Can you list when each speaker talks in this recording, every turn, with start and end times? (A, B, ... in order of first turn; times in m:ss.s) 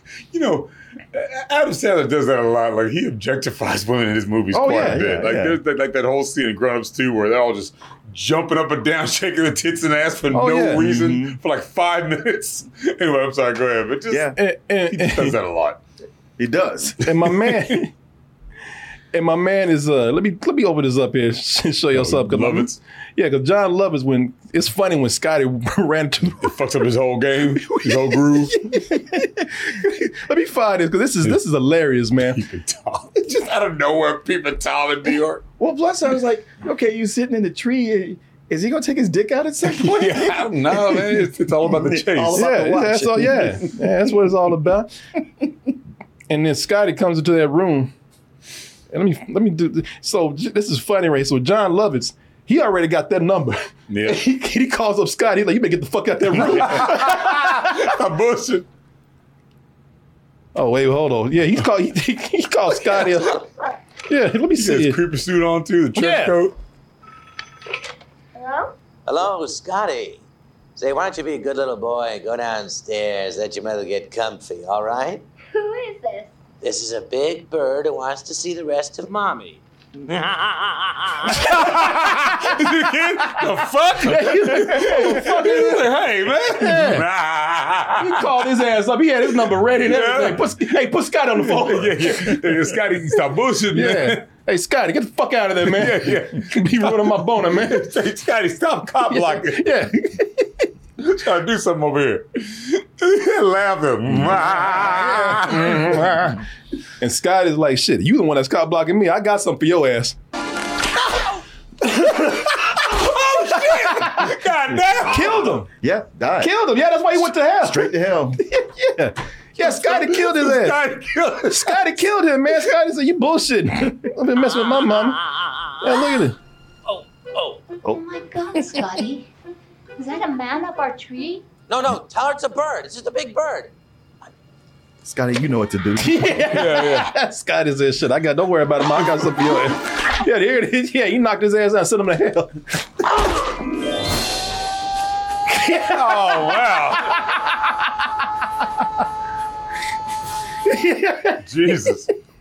0:00.3-0:14.4 A
0:04.5-0:05.3 B
0:04.6-0:05.6 C
0:10.3-0:10.8 B
0:10.8-0:11.4 C
0:14.1-0:14.4 C
0:14.4-0:15.3 B
0:14.9-0:15.8 A
0:16.4-0:17.0 C
0:17.0-0:17.9 B
0:17.4-0:17.8 A
0:19.1-0:26.5 B
0:22.0-0:22.8 A
0:26.4-0:28.5 A
0:27.7-0:32.4 B
0:32.2-0:35.4 A
0:35.6-0:43.7 C
0:39.7-0:42.4 A
0:42.4-0:44.9 B
0:46.3-0:47.9 B
0:48.9-0:57.9 B
0:53.9-0:54.3 A
0:56.3-0:58.7 A
1:00.6-1:03.4 B
1:04.1-1:05.0 B
1:04.6-1:06.6 A
1:06.0-1:06.4 B
1:08.4-1:08.7 D
1:09.1-1:10.2 E
1:10.8-1:15.2 E
1:15.5-1:16.3 D
1:16.6-1:21.4 E
1:21.4-1:28.5 A
1:24.0-1:25.9 B
1:26.5-1:27.0 B
1:28.0-1:32.6 B
1:29.8-1:30.6 A
1:31.4-1:34.2 A
1:33.7-1:37.9 B
1:35.7-1:39.8 A
1:39.1-1:40.4 B
1:41.0-1:46.0 A
1:44.6-1:46.4 B
1:47.0-1:50.2 B
1:51.8-1:52.5 B
1:52.7-1:55.6 A
1:53.5-1:54.3 B
1:55.1-1:55.7 B
1:55.8-1:56.8 C
1:56.4-2:00.8 B
1:57.6-1:58.4 C
1:59.6-2:01.8 A
2:01.5-2:05.2 B
2:05.8-2:06.4 B
2:06.9-2:07.6 E
2:07.9-2:09.3 D
2:10.0-2:11.5 D
2:11.7-2:13.7 E
2:15.0-2:16.6 C
2:16.0-2:22.6 B
2:16.5-2:17.1 A
2:25.5-2:26.6 B
2:25.8-2:27.2 A
2:30.7-2:31.4 B
2:31.4-2:32.1 A